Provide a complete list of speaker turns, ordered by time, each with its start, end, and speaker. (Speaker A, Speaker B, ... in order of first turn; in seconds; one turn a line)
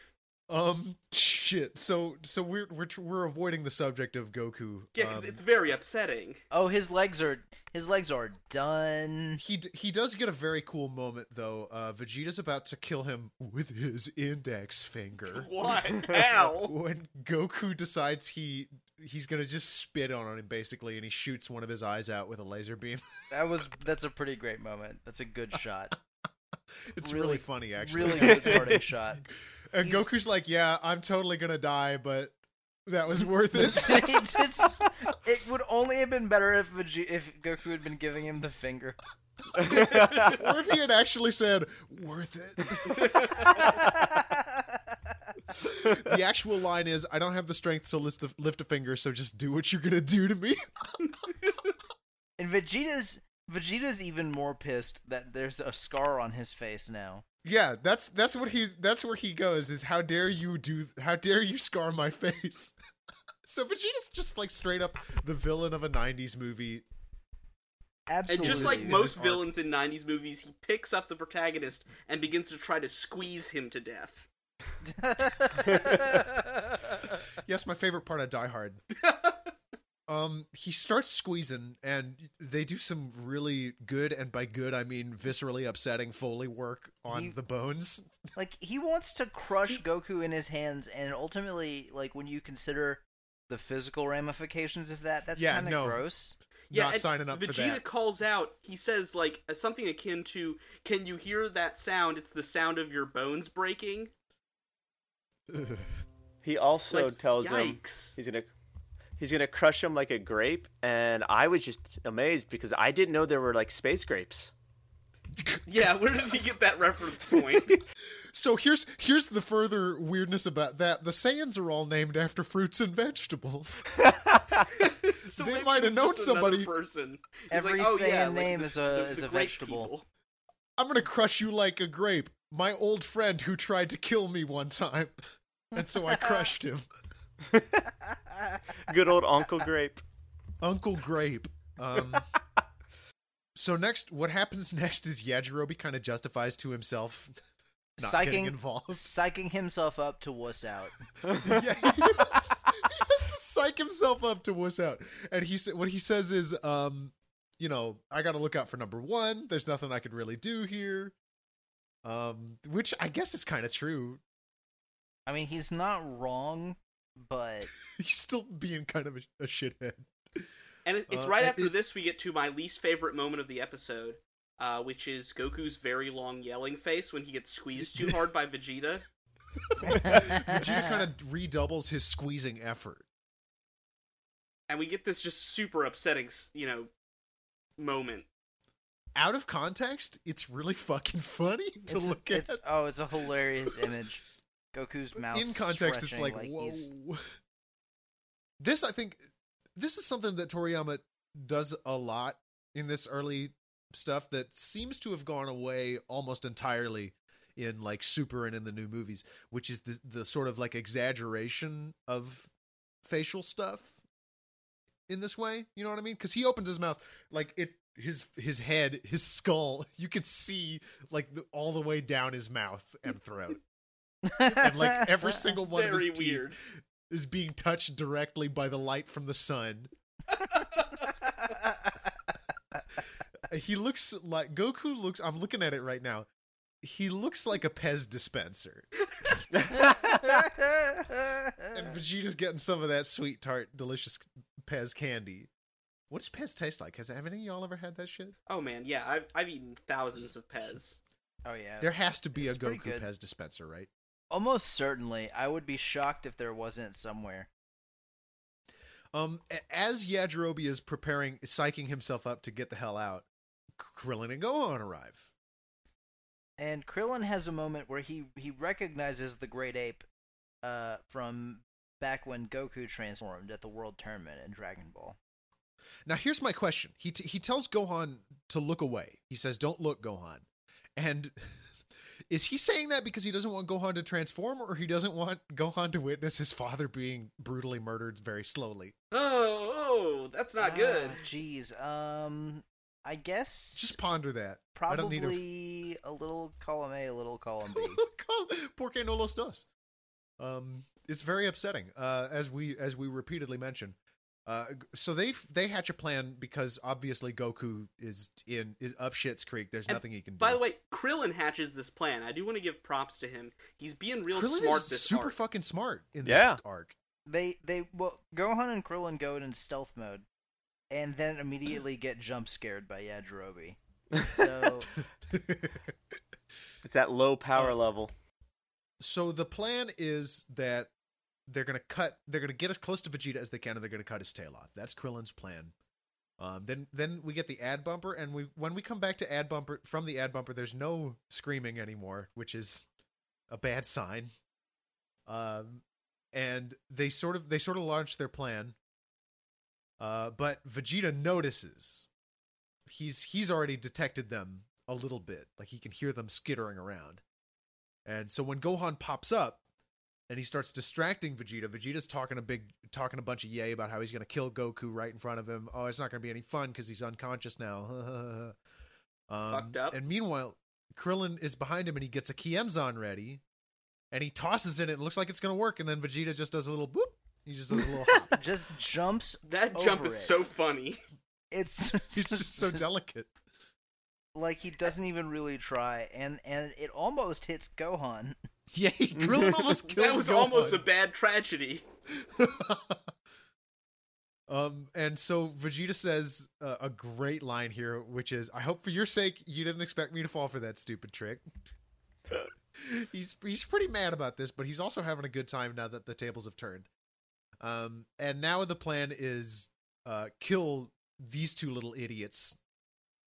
Speaker A: 0.5-5.4
Speaker B: 5.0-6.4
Speaker C: 6.5-9.4
Speaker A: 9.4-15.7
Speaker B: 15.3-16.7
Speaker A: 16.3-23.3
Speaker C: 23.3-25.9
Speaker A: 26.9-34.8
Speaker C: 27.0-29.2
Speaker D: 28.1-28.8
Speaker C: 29.8-30.1
Speaker C: 33.6-39.0
Speaker D: 39.6-40.3
Speaker B: 39.7-40.4
Speaker A: 39.7-43.6
Speaker B: 42.9-43.8
Speaker C: 43.8-44.6
Speaker A: 45.5-51.0
Speaker C: 52.4-57.2
Speaker A: 57.4-62.8
Speaker A: 63.4-66.8
Speaker C: 68.1-69.0
Speaker B: 68.3-74.2
Speaker A: 68.4-69.5
Speaker C: 74.8-77.1
Speaker D: 75.7-75.9
Speaker A: 77.3-78.8
Speaker B: 79.0-79.4
Speaker A: 80.1-88.1
Speaker C: 87.1-87.3
Speaker C: 88.3-96.4
Speaker A: 95.3-96.0
Speaker A: 96.7-97.8
Speaker B: 96.7-104.1
Speaker A: 105.5-105.8
Speaker D: 106.4-108.5
Speaker B: 106.9-108.2
Speaker D: 109.2-114.5
Speaker A: 115.3-116.3
Speaker B: 115.7-117.8
Speaker A: 118.1-123.9
Speaker D: 123.9-124.7
Speaker B: 124.7-130.0
Speaker A: 125.3-126.7
Speaker C: 127.5-129.9
Speaker A: 130.8-136.9
Speaker D: 137.4-137.8
Speaker D: 138.8-140.0
Speaker A: 140.6-142.3
Speaker A: 143.5-147.3
Speaker A: 148.0-149.1
Speaker C: 148.0-151.0
Speaker A: 151.2-161.1
Speaker D: 151.3-151.6
Speaker A: 162.0-164.2
Speaker C: 165.2-167.7
Speaker A: 167.8-170.5
Speaker B: 170.8-179.0
Speaker A: 171.1-171.8
Speaker A: 177.8-178.3
Speaker A: 179.8-183.1
Speaker C: 179.8-180.9
Speaker B: 184.7-186.9
Speaker B: 187.8-188.3
Speaker A: 189.1-192.6
Speaker C: 191.9-196.9
Speaker A: 195.2-197.3
Speaker A: 198.6-199.2
Speaker A: 199.8-212.5
Speaker A: 213.0-214.0
Speaker A: 215.1-223.6
Speaker C: 224.2-225.1
Speaker A: 224.4-229.9
Speaker B: 225.6-226.6
Speaker B: 230.5-231.1
Speaker A: 233.5-236.3
Speaker A: 236.8-238.9
Speaker D: 239.6-240.2
Speaker C: 239.8-241.5
Speaker A: 241.7-245.5
Speaker A: 246.1-248.3
Speaker B: 248.5-251.0
Speaker C: 251.4-253.1
Speaker A: 251.8-253.9
Speaker C: 254.3-257.5
Speaker A: 259.1-263.3
Speaker A: 263.8-265.3
Speaker C: 266.6-270.0
Speaker C: 270.6-275.2
Speaker A: 276.1-280.4
Speaker A: 280.9-281.7
Speaker A: 282.3-288.9
Speaker B: 289.1-291.2
Speaker C: 290.6-293.9
Speaker A: 293.7-295.4
Speaker C: 294.7-298.0
Speaker A: 297.7-299.6
Speaker A: 300.4-310.6
Speaker B: 309.9-315.4
Speaker A: 314.3-316.9
Speaker D: 316.2-316.6
Speaker C: 317.2-320.2
Speaker C: 320.9-324.9
Speaker A: 324.9-325.9
Speaker D: 326.8-328.1
Speaker A: 329.0-330.9
Speaker A: 331.5-335.7
Speaker A: 336.4-342.9
Speaker A: 343.5-344.3
Speaker A: 345.2-345.8
Speaker A: 346.3-348.8
Speaker A: 350.0-352.1
Speaker A: 352.9-357.2
Speaker A: 358.0-359.6
Speaker A: 360.3-368.5
Speaker A: 369.3-373.4
Speaker B: 369.5-369.9
Speaker A: 374.1-378.4
Speaker C: 378.3-380.4
Speaker B: 379.4-381.0
Speaker C: 381.5-382.8
Speaker A: 382.1-383.3
Speaker C: 384.3-388.4
Speaker A: 388.7-390.9
Speaker D: 389.2-389.6
Speaker B: 389.8-391.8
Speaker A: 392.1-393.0
Speaker A: 394.5-401.4
Speaker A: 402.8-406.9
Speaker A: 407.6-412.6